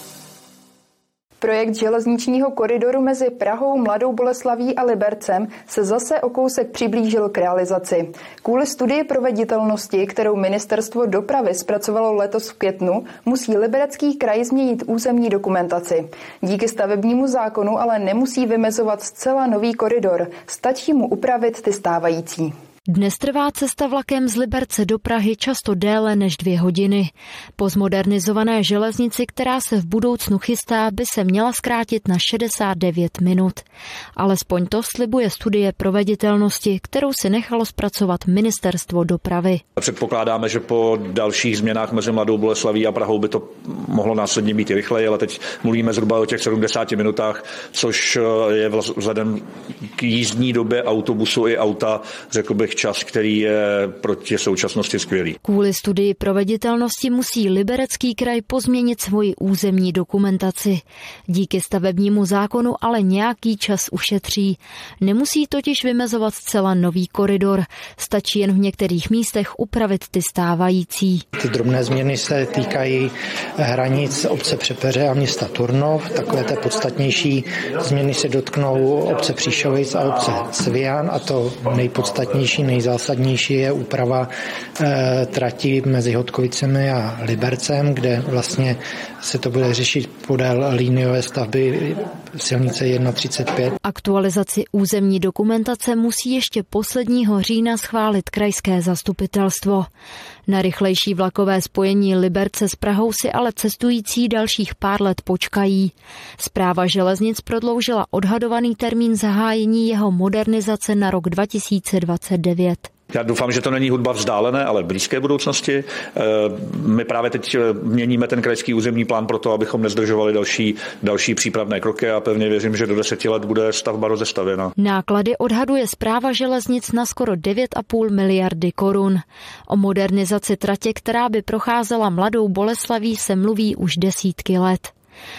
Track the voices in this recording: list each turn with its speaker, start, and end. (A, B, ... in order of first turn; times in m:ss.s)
0:01.4-0:22.5 A
0:22.9-0:33.6 B
0:34.2-0:39.6 B
0:39.8-0:49.4 C
0:49.9-0:55.4 C
0:55.4-1:11.2 B
1:11.4-1:33.7 D
1:33.8-1:39.9 B
1:40.5-1:52.9 B
1:53.1-2:04.7 C
2:04.8-2:14.9 B